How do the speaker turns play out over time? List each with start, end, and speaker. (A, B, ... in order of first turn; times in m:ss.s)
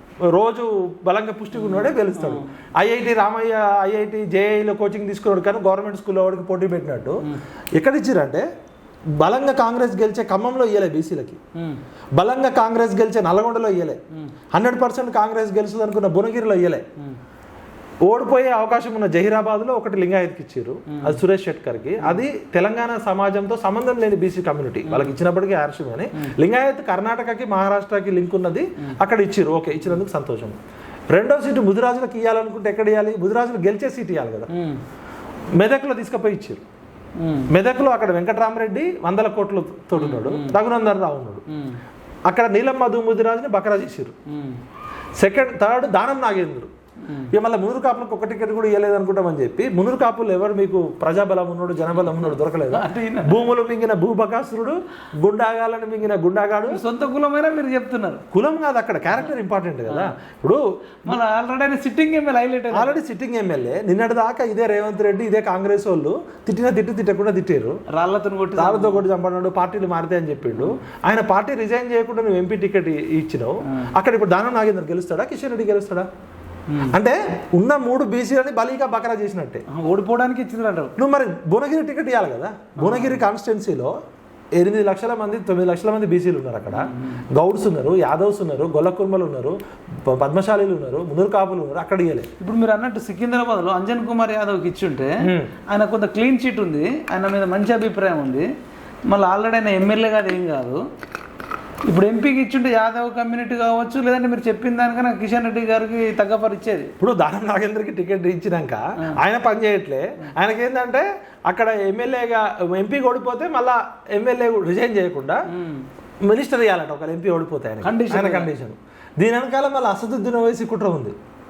0:00.3-0:07.2 A
0:01.5-0:02.4 B
0:07.8-0:08.4 A
0:09.2-0:11.4 A
0:11.5-0:11.8 B
0:12.2-0:14.0 A
0:14.5-0:16.8 A
0:18.0-0:30.6 A
0:20.9-0:21.2 B
0:24.8-0:25.2 B
0:31.1-0:34.5 A
0:34.5-0:34.8 B
0:35.6-0:36.6 A
0:37.2-0:37.5 B
0:37.5-0:41.4 A
0:40.0-0:40.6 B
0:41.5-0:41.8 B
0:42.3-0:44.1 A
0:44.3-0:44.6 B
0:45.2-0:46.7 A
0:47.0-0:47.3 B
0:47.3-0:56.8 A
0:52.7-0:53.4 B
0:56.7-0:58.2 B
0:58.3-1:01.2 A
1:01.0-1:03.0 B
1:02.7-1:07.8 A
1:07.9-1:09.0 B
1:08.6-1:16.1 A
1:16.7-1:17.0 B
1:16.9-1:19.6 A
1:19.7-1:20.9 B
1:21.0-1:23.9 A
1:22.8-1:23.2 B
1:24.6-1:32.3 A
1:26.7-1:27.2 B
1:32.4-1:35.1 B
1:35.2-1:35.5 A
1:35.7-1:38.5 B
1:39.1-1:40.8 B
1:41.8-1:46.9 B
1:47.0-1:55.4 A
1:55.5-1:55.8 B
1:56.2-2:01.1 A
1:57.8-1:58.5 B